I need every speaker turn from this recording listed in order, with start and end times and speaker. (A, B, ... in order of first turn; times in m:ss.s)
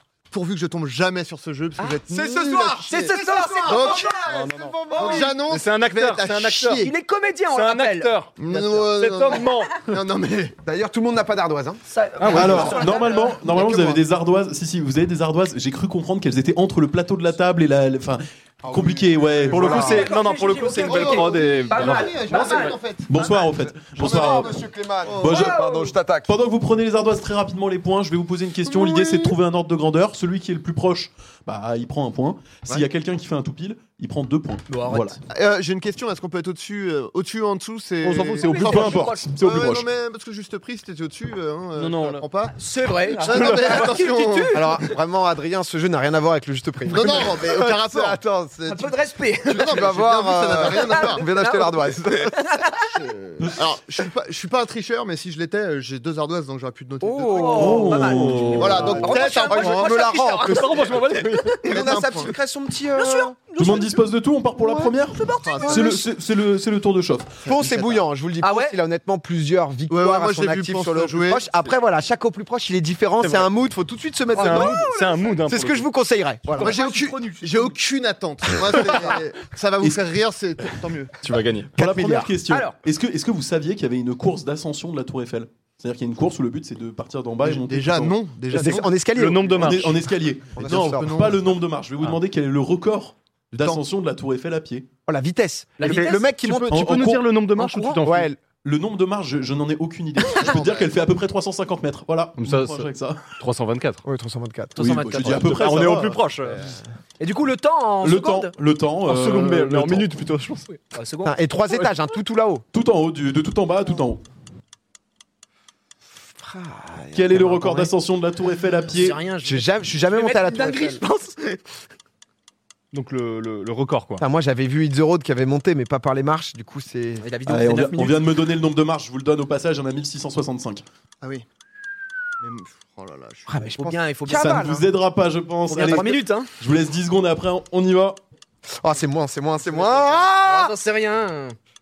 0:00.3-0:02.9 A
0:02.1-0:05.4 B
0:02.8-0:04.2 C
0:03.6-0:04.2 A
0:04.2-0:06.9 D
0:04.9-0:06.9 A
0:04.9-0:05.2 C
0:06.8-0:08.1 C
0:07.5-0:09.9 D
0:08.4-0:10.5 A
0:10.6-0:11.8 B
0:11.9-0:13.4 C
0:12.2-0:12.6 D
0:12.3-0:20.0 E
0:12.3-0:14.0 A
0:18.6-0:20.1 B
0:19.5-0:22.7 D
0:19.6-0:22.8 C
0:20.8-0:23.1 A
0:23.1-0:24.6 E
0:23.1-0:26.3 B
0:25.0-0:25.4 A
0:25.2-0:35.2 E
0:25.3-0:25.9 C
0:28.8-0:29.2 A
0:34.7-0:35.2 C
0:35.3-0:42.6 A
0:38.0-0:39.9 E
0:38.4-0:39.3 C
0:41.8-0:42.2 D
0:42.5-0:44.9 C
0:43.2-0:44.5 A
0:43.3-0:43.8 D
0:44.5-0:48.7 B
0:46.9-0:48.9 A
0:48.7-0:49.9 C
0:49.4-0:51.2 A
0:49.6-0:52.4 B
0:50.6-0:52.9 C
0:52.7-1:00.0 A
0:57.0-0:58.2 B
0:57.3-1:02.1 C
0:57.5-0:58.9 E
0:58.1-0:59.1 D
0:58.7-1:00.8 B
1:00.4-1:01.7 D
1:01.6-1:03.4 B
1:01.7-1:02.3 A
1:02.9-1:04.0 C
1:03.6-1:07.4 E
1:04.6-1:04.9 B
1:05.1-1:06.0 C
1:05.4-1:06.0 A
1:05.7-1:06.0 B
1:07.4-1:08.0 A
1:07.4-1:14.9 B
1:08.4-1:08.8 C
1:09.9-1:11.5 A
1:13.2-1:13.5 D
1:14.3-1:15.4 C
1:14.4-1:15.8 D
1:15.4-1:16.8 B
1:16.5-1:17.8 C
1:16.6-1:21.2 A
1:19.8-1:20.1 E
1:21.2-1:21.7 D
1:21.8-1:22.3 B
1:21.8-1:28.2 E
1:22.5-1:22.8 C
1:27.4-1:29.0 A
1:28.5-1:30.0 B
1:29.1-1:30.0 D
1:29.5-1:34.9 E
1:30.5-1:31.4 B
1:30.6-1:31.5 A
1:33.6-1:33.8 A
1:35.1-1:37.2 B
1:35.8-1:36.7 C
1:35.8-1:38.3 D
1:36.7-1:37.2 E
1:37.5-1:38.0 C
1:38.0-1:38.4 B
1:38.6-1:43.3 E
1:40.3-1:41.0 A
1:42.4-1:44.0 D
1:44.0-1:45.0 B
1:44.8-1:45.7 C
1:44.8-1:46.2 E
1:45.2-1:46.6 D
1:47.2-1:48.5 C
1:48.0-1:50.1 E
1:49.0-1:50.7 D
1:50.7-1:51.4 C
1:51.2-1:52.6 B
1:52.7-1:54.2 E
1:56.4-1:57.9 B
1:57.1-1:59.2 E
1:58.9-2:01.6 C
1:59.4-2:01.0 B
2:02.9-2:04.2 D
2:04.2-2:07.2 B
2:07.2-2:08.2 C
2:07.4-2:10.8 E
2:12.4-2:13.5 A
2:13.5-2:14.9 B
2:13.6-2:14.8 C
2:14.3-2:18.2 E
2:15.7-2:16.5 C
2:15.8-2:16.1 B
2:18.8-2:20.7 B
2:19.6-2:21.6 C